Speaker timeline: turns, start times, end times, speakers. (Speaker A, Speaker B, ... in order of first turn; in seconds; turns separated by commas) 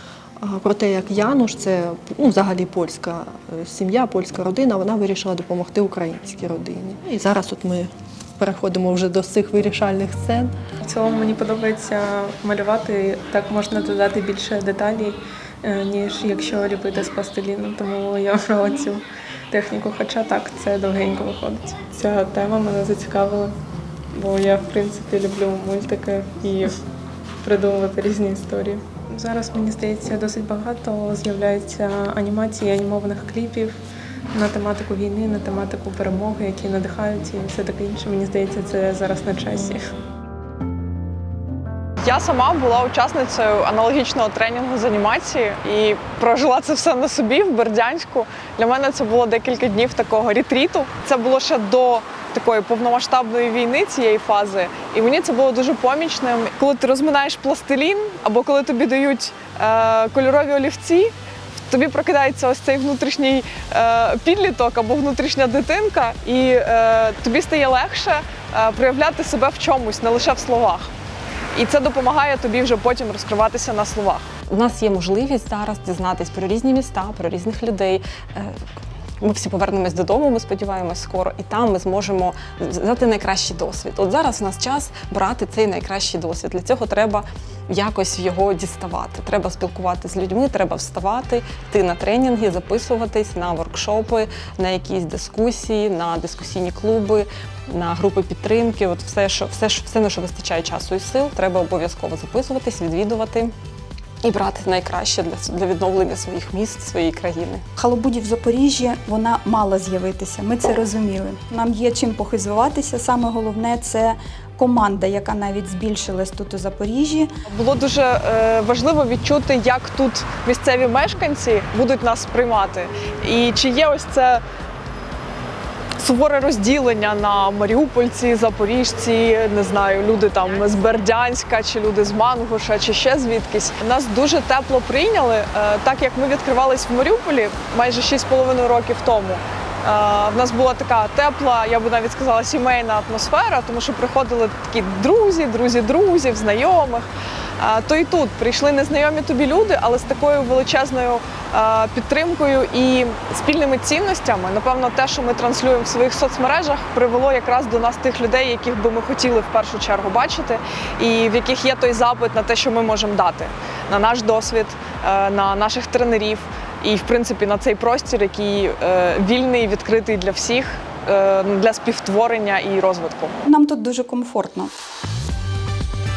Speaker A: 0.4-10.5, Speaker B: 10.8-23.5, Speaker B: 24.1-26.7, Speaker B: 27.4-33.8, Speaker B: 34.3-39.8, Speaker C: 42.0-70.9, Speaker C: 71.5-74.3, Speaker D: 74.5-78.6, Speaker D: 79.2-103.5, Speaker D: 104.2-107.6, Speaker E: 107.8-117.3, Speaker C: 117.5-124.4, Speaker C: 126.0-147.1, Speaker C: 147.6-173.3, Speaker E: 173.4-174.7